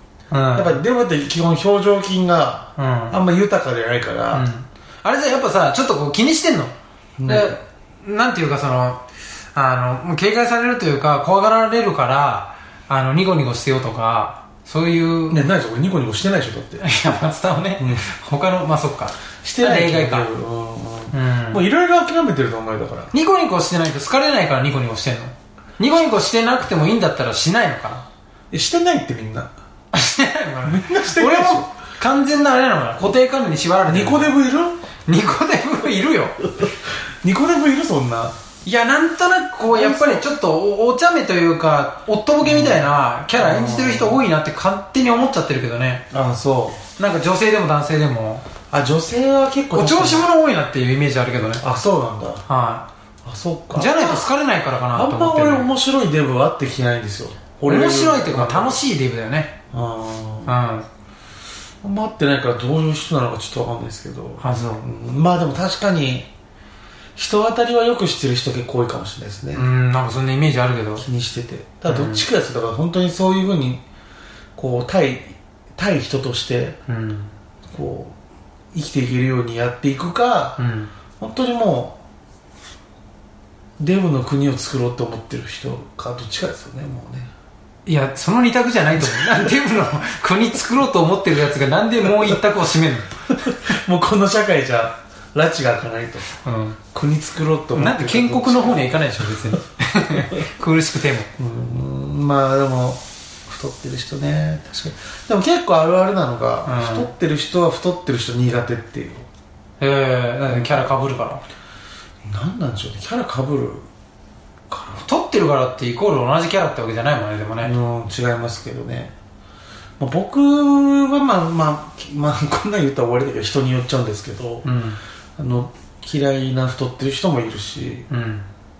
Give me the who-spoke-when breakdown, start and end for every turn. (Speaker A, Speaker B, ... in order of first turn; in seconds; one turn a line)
Speaker A: 0.3-0.8
Speaker B: 0.5-4.5
Speaker A: 2.8-3.2
Speaker A: 4.3-6.7
Speaker B: 7.2-7.6
Speaker A: 7.2-15.4
Speaker B: 15.3-16.8
Speaker A: 16.8-20.3
Speaker B: 17.8-18.1
Speaker B: 19.4-23.1
Speaker A: 21.1-21.6
Speaker A: 23.1-28.0
Speaker B: 28.5-29.5
Speaker A: 29.9-34.3
Speaker B: 30.6-31.7
Speaker B: 33.9-34.8
Speaker A: 35.1-36.6
Speaker B: 37.2-38.4
Speaker A: 38.6-46.0
Speaker B: 39.7-40.3
Speaker B: 42.4-44.2
Speaker B: 46.1-46.8
Speaker A: 47.0-48.4
Speaker B: 48.7-50.3
Speaker A: 49.7-51.6
Speaker B: 51.6-52.4
Speaker A: 52.5-52.9
Speaker B: 53.2-54.3
Speaker A: 53.7-55.7
Speaker B: 54.9-58.8
Speaker A: 57.7-59.5
Speaker B: 59.7-60.5
Speaker A: 60.5-60.9
Speaker B: 61.8-66.3
Speaker A: 64.4-64.8
Speaker B: 67.2-69.7
Speaker A: 69.5-71.1
Speaker B: 71.0-73.8
Speaker A: 71.8-72.3
Speaker B: 74.5-76.8
Speaker A: 76.9-77.3
Speaker B: 77.7-78.2
Speaker B: 78.7-80.6
Speaker A: 80.6-80.9
Speaker B: 81.2-82.0
Speaker B: 83.8-87.3
Speaker A: 87.8-93.2
Speaker B: 89.2-89.5
Speaker B: 93.3-96.3
Speaker A: 96.4-96.8
Speaker B: 96.9-99.1
Speaker A: 97.7-101.3
Speaker B: 101.4-109.3
Speaker A: 106.6-107.1
Speaker A: 109.8-111.4
Speaker B: 110.5-110.9
Speaker B: 112.2-113.9
Speaker B: 114.7-115.0
Speaker A: 115.0-117.7
Speaker B: 117.6-119.1
Speaker B: 120.0-124.7
Speaker A: 124.6-125.0
Speaker B: 125.4-128.1
Speaker A: 128.1-128.5